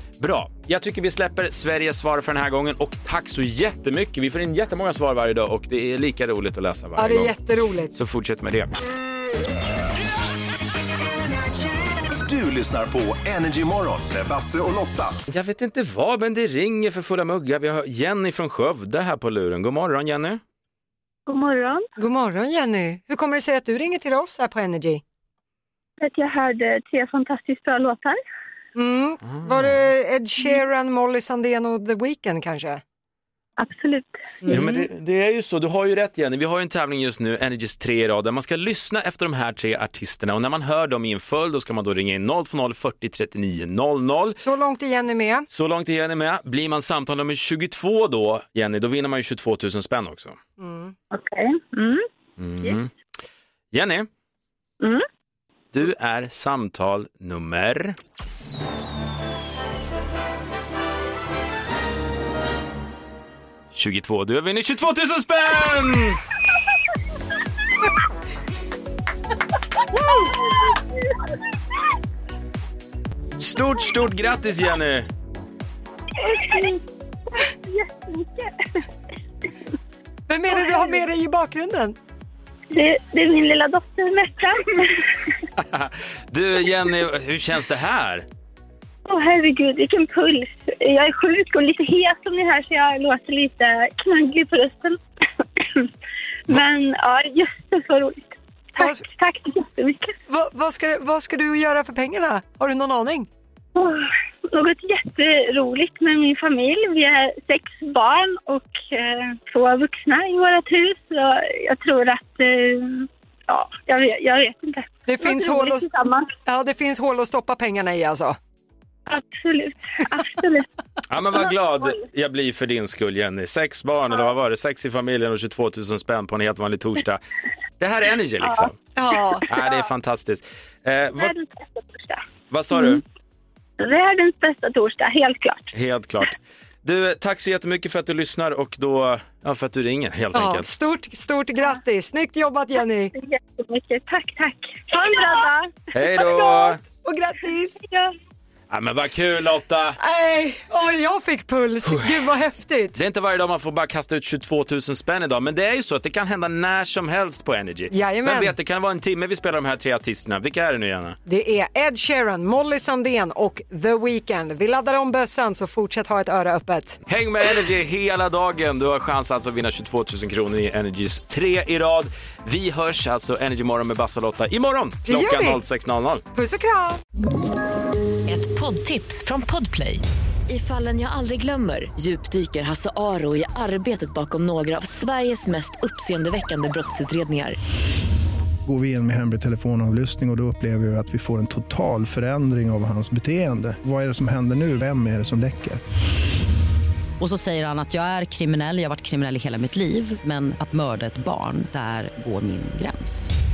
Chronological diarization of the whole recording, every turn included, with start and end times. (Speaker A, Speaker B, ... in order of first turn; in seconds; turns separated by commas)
Speaker A: 0.2-7.3, Speaker B: 7.0-7.9, Speaker A: 7.9-8.7, Speaker C: 12.3-15.1, Speaker A: 15.3-20.4, Speaker D: 21.3-21.9, Speaker B: 22.0-25.0, Speaker D: 26.0-28.2, Speaker B: 28.8-32.8, Speaker A: 29.3-29.7, Speaker D: 33.6-34.6, Speaker B: 34.4-34.9, Speaker A: 34.5-44.4, Speaker B: 44.4-45.5, Speaker A: 45.5-50.4, Speaker B: 50.6-51.0, Speaker D: 51.1-52.1, Speaker A: 52.4-52.9, Speaker A: 53.7-54.1, Speaker A: 55.7-58.0, Speaker A: 63.7-66.2, Speaker A: 73.4-75.1, Speaker D: 76.2-76.8, Speaker D: 77.4-78.9, Speaker B: 80.3-82.0, Speaker D: 80.6-81.0, Speaker D: 82.7-85.3, Speaker A: 85.6-88.3, Speaker D: 89.1-95.0, Speaker D: 95.6-95.9, Speaker D: 96.5-100.1, Speaker B: 98.8-99.0, Speaker B: 100.3-103.3, Speaker D: 103.8-116.3, Speaker B: 115.1-115.9, Speaker B: 116.5-118.4, Speaker D: 119.1-120.7, Speaker A: 121.1-127.2, Speaker D: 121.5-122.0, Speaker A: 127.8-128.8, Speaker B: 129.0-129.5, Speaker A: 129.5-131.3, Speaker D: 131.2-132.2, Speaker A: 132.5-133.0, Speaker D: 133.8-135.7, Speaker A: 135.7-140.7, Speaker B: 140.3-143.1, Speaker D: 143.1-145.7, Speaker A: 145.9-146.8, Speaker B: 146.1-147.8, Speaker D: 147.8-148.1, Speaker A: 148.7-150.0, Speaker B: 150.0-153.0, Speaker A: 152.9-161.2, Speaker B: 157.9-158.5, Speaker B: 161.3-167.0, Speaker A: 167.1-176.2, Speaker B: 175.1-175.6, Speaker B: 176.3-177.0, Speaker E: 178.3-187.6, Speaker F: 188.7-195.8, Speaker G: 197.2-203.3